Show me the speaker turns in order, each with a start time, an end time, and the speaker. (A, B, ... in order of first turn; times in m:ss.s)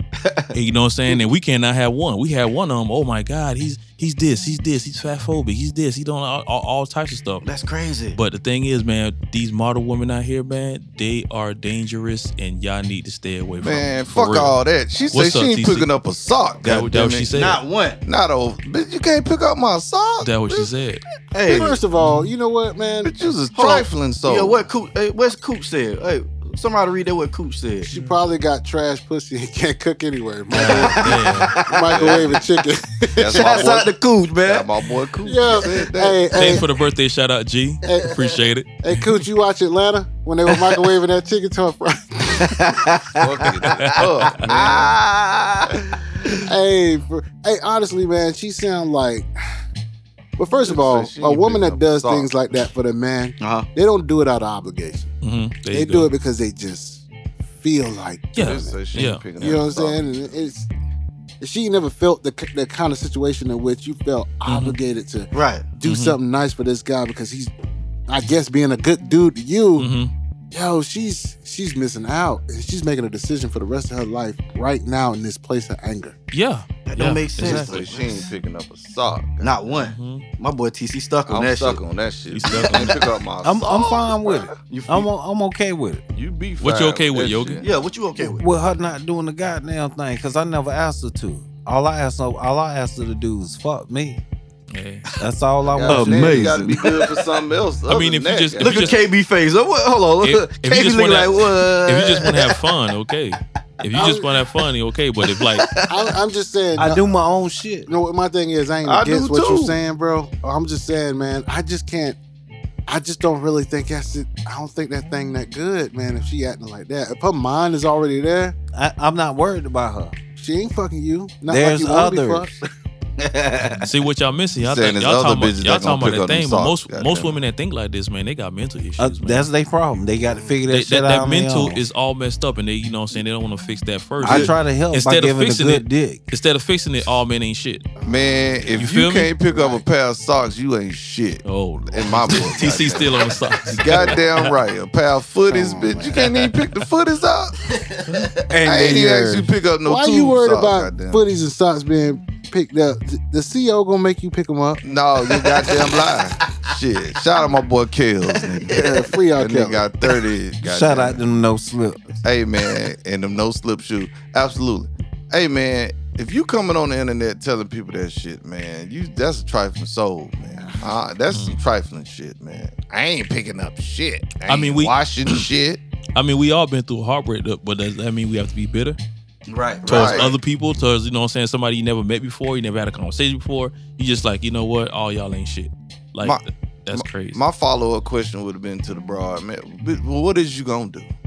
0:00.2-0:00.5 A
0:00.5-0:07.5 B
0:07.4-0:08.2 A
0:08.1-0:14.6 B
0:13.6-0:17.3 C
0:15.1-0:15.9 B
0:16.6-0:17.6 B
0:17.3-0:18.0 A
0:18.0-0:20.7 C
0:20.2-0:21.0 B
0:21.3-0:21.8 A
0:21.5-0:23.1 D
0:22.0-0:22.3 B
0:23.0-0:24.7 C
0:23.5-0:27.9 A
0:27.8-0:33.7 D
0:27.9-0:28.2 B
0:30.5-0:31.6 B
0:30.6-0:32.2 A
0:31.9-0:32.4 C
0:33.2-0:33.9 C
0:33.3-0:34.7 A
0:34.4-0:36.6 C
0:35.2-0:36.7 D
0:36.3-0:39.0 B
0:37.8-0:42.8 D
0:42.4-0:45.7 A
0:43.2-0:45.0 C
0:43.6-0:44.5 B
0:46.3-0:49.3 D
0:50.4-0:55.1 D
0:50.6-0:52.3 C
0:53.4-0:53.7 A
0:55.2-0:56.1 B
0:55.7-0:58.8 D
0:58.4-0:59.2 B
0:58.4-1:00.3 C
0:59.4-1:00.7 D
1:01.4-1:07.5 D
1:04.5-1:04.8 B
1:05.3-1:05.7 A
1:05.8-1:06.2 B
1:08.1-1:09.9 D
1:09.8-1:10.1 B
1:10.5-1:16.2 D
1:16.3-1:17.8 B
1:16.9-1:18.3 A
1:17.4-1:19.6 C
1:19.4-1:21.8 A
1:19.7-1:20.2 B
1:21.3-1:24.5 C
1:22.3-1:22.9 B
1:23.4-1:26.0 E
1:24.7-1:25.1 A
1:26.2-1:27.7 C
1:26.6-1:27.6 B
1:27.6-1:28.4 A
1:28.2-1:34.2 E
1:34.7-1:35.1 B
1:35.2-1:36.6 E
1:35.7-1:39.0 C
1:35.8-1:37.2 A
1:37.9-1:39.0 B
1:38.6-1:42.6 A
1:40.2-1:45.7 B
1:43.9-1:44.3 D
1:45.3-1:46.1 A
1:45.9-1:47.0 D
1:46.8-1:47.9 E
1:47.9-1:52.2 D
1:48.9-1:49.8 A
1:52.9-1:58.6 D
1:58.7-2:00.2 E
2:00.4-2:02.6 D
2:01.5-2:02.5 E
2:03.2-2:03.8 A
2:03.8-2:09.5 B
2:04.6-2:07.4 C
2:09.0-2:11.8 E
2:10.3-2:10.6 D
2:10.7-2:17.9 B
2:14.2-2:16.2 E
2:14.2-2:14.5 C
2:18.0-2:18.9 D
2:18.0-2:27.6 C
2:18.8-2:19.3 B
2:19.5-2:19.8 D
2:21.4-2:24.5 B
2:23.3-2:24.1 A
2:25.5-2:26.2 D
2:27.8-2:28.4 A
2:28.5-2:29.5 E
2:28.6-2:31.2 C
2:29.8-2:34.8 D
2:34.8-2:38.7 C
2:35.4-2:36.7 A
2:38.3-2:39.1 A
2:38.7-2:39.9 D
2:39.4-2:41.2 C
2:40.6-2:42.2 E
2:42.2-2:55.8 C
2:51.3-2:51.6 B
2:54.5-2:55.4 B
2:56.2-2:59.0 B
2:59.5-3:00.4 A
2:59.8-3:00.3 C
2:59.9-3:07.4 B
3:06.2-3:11.1 C